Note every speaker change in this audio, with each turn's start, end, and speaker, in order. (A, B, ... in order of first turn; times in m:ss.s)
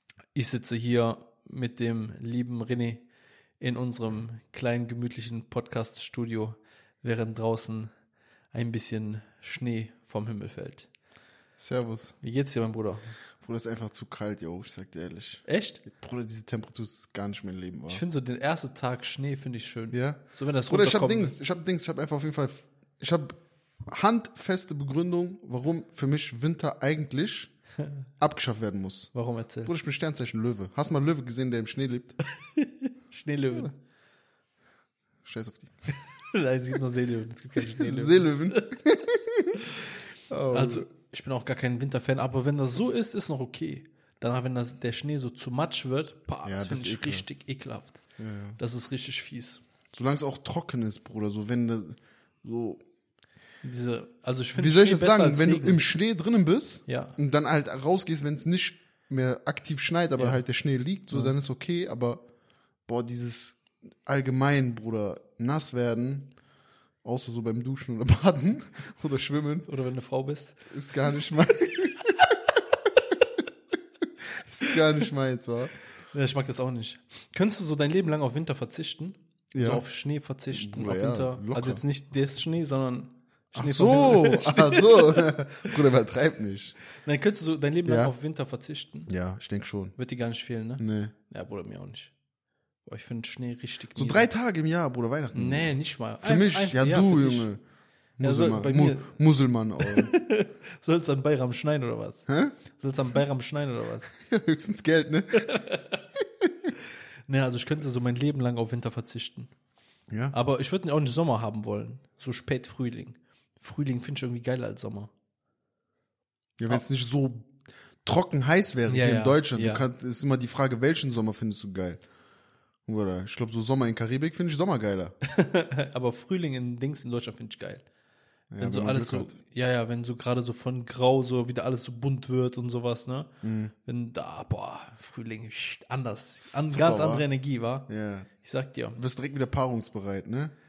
0:00.4-0:03.0 A
0:03.6-0:07.9 A
0:08.5-0:10.9 A
0:11.6-0:12.2 B
0:12.2-0:13.0 A
0:13.4-0:18.0 B
0:15.5-0:15.8 A
0:17.9-0:21.4 A
0:19.9-0:27.5 B
0:28.2-0:32.2 B
0:29.1-0:29.7 A
0:32.4-0:33.7 A
0:35.2-0:35.7 B
0:36.3-0:38.8 A
0:37.6-0:39.7 B
0:40.3-0:40.8 B
0:40.5-0:48.0 A
0:46.4-0:47.2 B
0:48.2-0:48.6 B
0:48.6-0:49.6 A
0:49.9-0:52.8 B
0:53.6-0:55.8 A
0:54.6-1:02.2 B
0:56.9-0:57.2 A
1:02.9-1:06.3 B
1:07.0-1:09.7 B
1:09.7-1:10.6 A
1:10.7-1:12.4 B
1:14.3-1:15.7 B
1:16.1-1:25.7 A
1:19.5-1:19.8 B
1:20.5-1:21.8 B
1:23.5-1:26.8 B
1:27.0-1:29.1 A
1:27.8-1:28.1 B
1:29.1-1:29.9 B
1:30.0-1:32.1 A
1:30.8-1:31.1 B
1:32.8-1:34.3 A
1:33.9-1:37.6 B
1:35.3-1:37.5 A
1:38.2-1:40.1 B
1:38.2-1:39.1 A
1:39.8-1:44.1 A
1:42.3-1:42.5 B
1:44.3-1:45.4 B
1:45.4-1:46.0 A
1:46.4-1:46.7 B
1:47.3-1:49.5 A
1:50.3-1:55.1 A
1:56.6-1:57.5 B
1:58.0-2:02.0 B
1:58.9-1:59.8 A
2:02.8-2:05.1 B
2:05.2-2:07.8 A
2:08.5-2:09.3 B
2:08.6-2:13.3 A
2:13.4-2:13.7 B
2:13.8-2:17.9 A
2:16.4-2:17.2 B
2:17.9-2:18.3 B
2:18.4-2:19.0 A
2:19.0-2:20.5 B